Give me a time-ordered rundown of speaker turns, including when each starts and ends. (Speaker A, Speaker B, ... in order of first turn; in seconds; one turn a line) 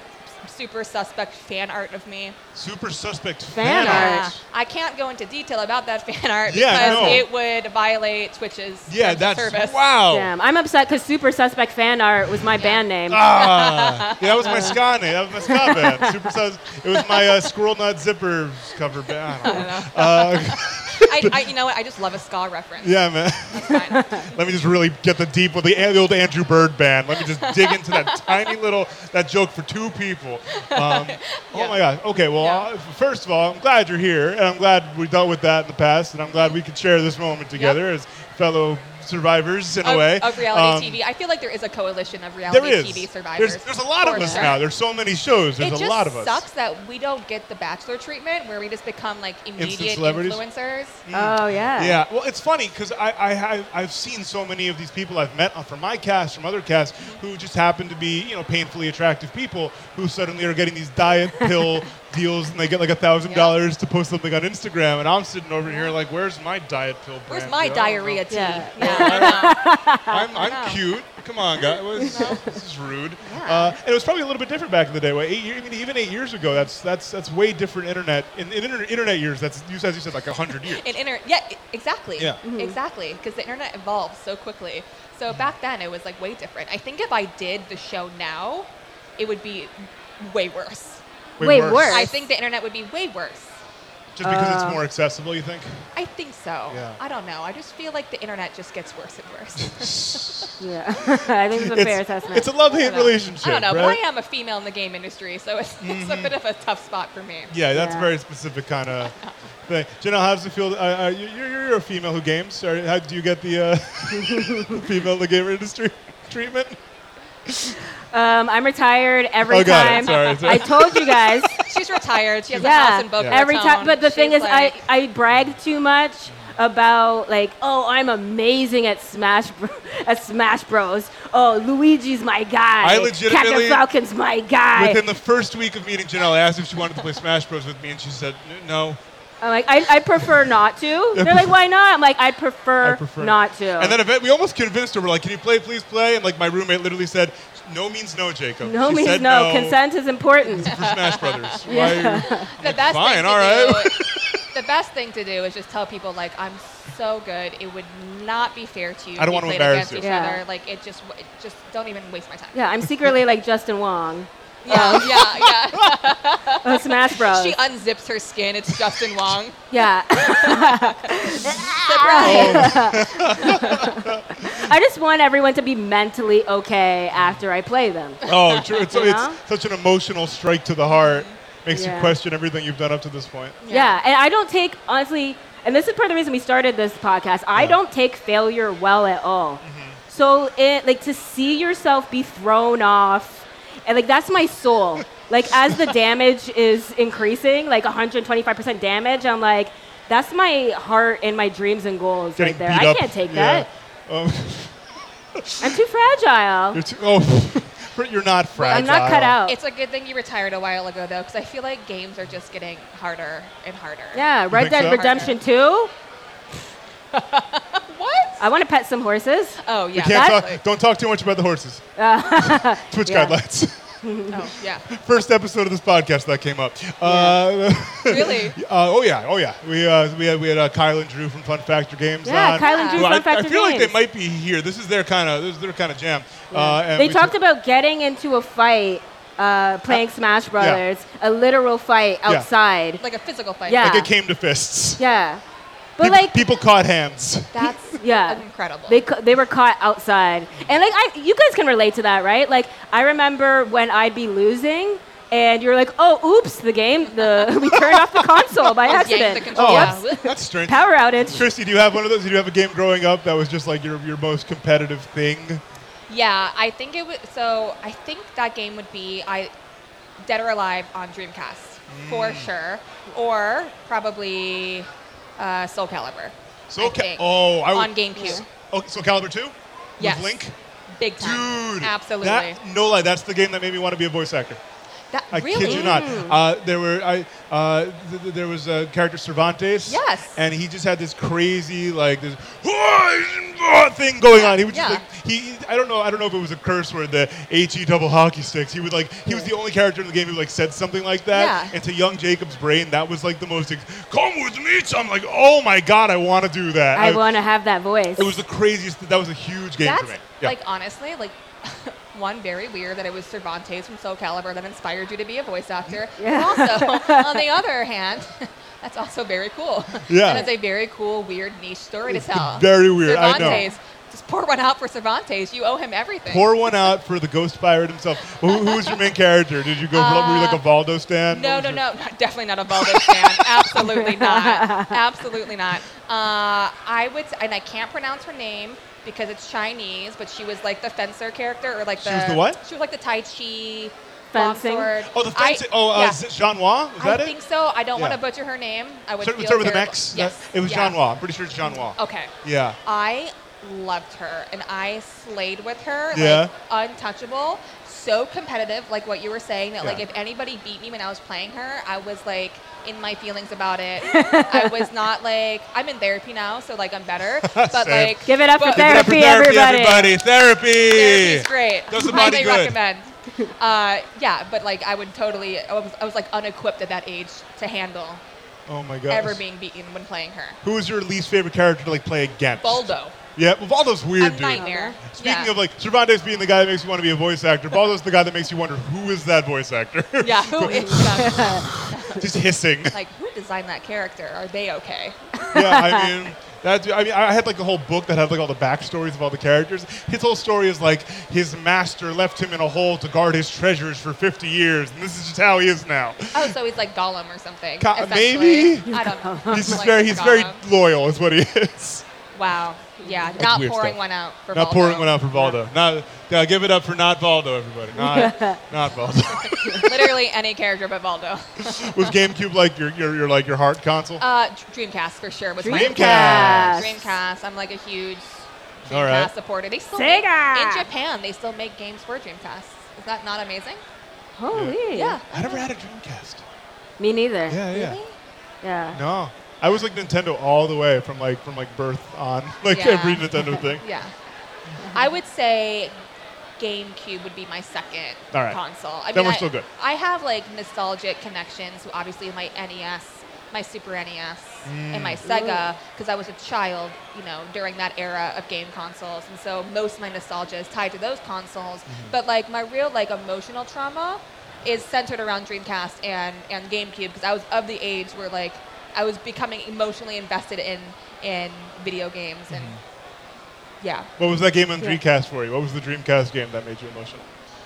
Speaker A: 0.5-2.4
Speaker B: 2.5-4.4
Speaker C: 3.5-4.3
Speaker A: 3.7-9.8
Speaker B: 6.5-7.2
Speaker C: 6.7-7.3
Speaker B: 8.9-10.3
Speaker C: 10.1-13.2
Speaker A: 12.6-14.8
Speaker B: 13.1-21.4
Speaker C: 14.5-14.8
Speaker C: 15.4-16.1
Speaker A: 17.2-17.5
Speaker A: 19.4-24.4
Speaker B: 22.8-41.0
Speaker A: 27.2-28.6
Speaker A: 30.7-32.7
Speaker A: 37.6-37.8
Speaker A: 39.8-44.6
Speaker B: 42.5-46.4
Speaker C: 44.1-44.5
Speaker A: 45.6-51.0
Speaker B: 49.6-50.4
Speaker B: 51.1-81.0
Speaker C: 51.1-52.0
Speaker A: 63.3-63.6
Speaker A: 65.7-65.9
Speaker A: 67.3-69.6
Speaker C: 68.3-70.3
Speaker A: 70.4-70.9
Speaker C: 71.6-72.3
Speaker A: 72.0-72.4
Speaker A: 73.2-73.8
Speaker A: 80.6-91.0
Speaker C: 82.4-82.8
Speaker B: 91.4-92.2
Speaker C: 91.4-92.2
Speaker A: 91.8-93.5
Speaker B: 94.1-95.7
Speaker C: 94.2-94.8
Speaker A: 96.0-100.5
Speaker B: 96.7-97.0
Speaker B: 99.6-100.5
Speaker C: 100.6-102.5
Speaker B: 101.5-104.0
Speaker A: 102.7-107.5
Speaker B: 105.8-106.3
Speaker B: 107.5-109.1
Speaker C: 107.7-108.1
Speaker A: 109.0-109.3
Speaker B: 109.7-116.8
Speaker C: 118.1-121.6
Speaker B: 119.5-121.7
Speaker A: 119.8-120.7
Speaker A: 121.7-124.8
Speaker C: 122.5-135.0
Speaker B: 123.2-123.5
Speaker B: 132.8-133.8
Speaker B: 134.8-139.0
Speaker C: 139.4-144.0
Speaker B: 140.2-140.4
Speaker B: 141.1-141.6
Speaker B: 142.8-149.8
Speaker C: 148.6-150.7
Speaker B: 150.4-154.4
Speaker A: 150.7-154.0
Speaker C: 151.7-152.5
Speaker A: 154.5-162.6
Speaker B: 159.2-160.1
Speaker C: 160.0-160.4
Speaker C: 162.5-165.3
Speaker B: 162.8-163.1
Speaker A: 164.7-172.9
Speaker B: 164.8-165.5
Speaker C: 166.6-167.6
Speaker C: 169.7-178.2
Speaker B: 172.2-174.7
Speaker B: 178.2-183.6
Speaker A: 178.3-178.9
Speaker C: 178.9-179.4
Speaker A: 180.9-181.3
Speaker C: 181.7-182.2
Speaker A: 183.6-184.0
Speaker C: 183.7-203.7
Speaker B: 187.6-187.8
Speaker B: 189.6-190.0
Speaker B: 202.4-204.9
Speaker B: 205.4-205.8
Speaker C: 205.6-206.8
Speaker B: 206.7-209.4
Speaker C: 208.6-209.6
Speaker A: 209.4-215.4
Speaker C: 214.1-215.9
Speaker B: 214.5-215.1
Speaker A: 217.1-218.4
Speaker C: 218.4-220.4
Speaker A: 219.6-220.6
Speaker B: 219.9-221.8
Speaker C: 222.0-223.4
Speaker B: 222.4-223.8
Speaker C: 224.0-224.4
Speaker A: 224.3-224.9
Speaker B: 224.9-237.4
Speaker C: 227.0-227.4
Speaker A: 228.1-228.6
Speaker C: 232.2-234.0
Speaker A: 232.6-233.1
Speaker C: 236.5-243.0
Speaker B: 240.6-240.8
Speaker A: 243.0-243.9
Speaker C: 243.7-244.1
Speaker B: 243.8-245.0
Speaker C: 245.0-245.4
Speaker C: 246.0-246.4
Speaker B: 246.0-247.7
Speaker A: 247.5-249.1
Speaker C: 248.0-261.5
Speaker B: 257.9-258.2
Speaker A: 258.9-260.3
Speaker B: 259.5-265.6
Speaker A: 266.1-269.5
Speaker A: 270.2-278.4
Speaker B: 271.9-272.5
Speaker B: 276.7-280.6
Speaker C: 278.1-278.4
Speaker A: 280.0-280.5
Speaker A: 281.0-282.6
Speaker B: 281.2-284.6
Speaker A: 285.1-286.1
Speaker B: 285.3-307.2
Speaker C: 285.6-286.4
Speaker A: 289.9-290.4
Speaker A: 294.3-295.1
Speaker A: 301.3-301.8
Speaker C: 306.9-308.3
Speaker B: 308.2-310.6
Speaker A: 309.8-326.8
Speaker C: 316.2-317.4
Speaker B: 320.1-320.5
Speaker B: 322.1-323.7
Speaker C: 323.3-323.7
Speaker B: 326.3-331.8
Speaker A: 328.3-329.1
Speaker A: 329.9-330.6
Speaker A: 331.3-346.2
Speaker C: 333.8-335.0
Speaker B: 342.0-342.6
Speaker C: 344.3-344.9
Speaker B: 345.1-347.3
Speaker A: 347.0-351.0
Speaker B: 349.2-352.8
Speaker A: 351.6-352.3
Speaker A: 352.9-369.2
Speaker B: 356.1-356.5
Speaker C: 364.1-364.7
Speaker B: 367.4-372.8
Speaker C: 368.2-370.2
Speaker A: 370.9-378.2
Speaker B: 378.7-379.4
Speaker A: 379.1-380.6
Speaker B: 380.6-393.0
Speaker A: 382.6-383.2
Speaker A: 384.2-385.6
Speaker C: 384.6-385.0
Speaker A: 390.2-392.4
Speaker C: 390.6-391.7
Speaker A: 392.9-395.3
Speaker C: 395.4-396.1
Speaker B: 395.5-406.5
Speaker A: 406.3-410.6
Speaker B: 407.8-408.9
Speaker C: 408.8-409.9
Speaker B: 409.5-412.1
Speaker A: 412.4-415.6
Speaker C: 413.0-413.4
Speaker B: 413.4-414.0
Speaker B: 414.5-420.1
Speaker C: 418.0-418.6
Speaker A: 419.4-422.1
Speaker B: 421.7-424.2
Speaker A: 424.2-433.8
Speaker C: 425.6-427.1
Speaker B: 425.6-426.9
Speaker B: 428.9-429.3
Speaker C: 430.0-430.9
Speaker C: 434.4-435.2
Speaker B: 434.5-434.8
Speaker A: 434.9-435.7
Speaker B: 435.3-436.4
Speaker C: 437.0-437.6
Speaker B: 437.5-438.0
Speaker A: 437.7-438.1
Speaker C: 438.6-439.0
Speaker B: 438.9-443.8
Speaker A: 442.7-444.1
Speaker A: 444.9-445.9
Speaker A: 446.6-472.8
Speaker B: 448.3-448.6
Speaker B: 449.1-449.7
Speaker B: 454.6-455.2
Speaker C: 455.2-455.7
Speaker B: 461.9-462.1
Speaker B: 472.5-472.8
Speaker A: 473.8-474.1
Speaker B: 474.2-477.3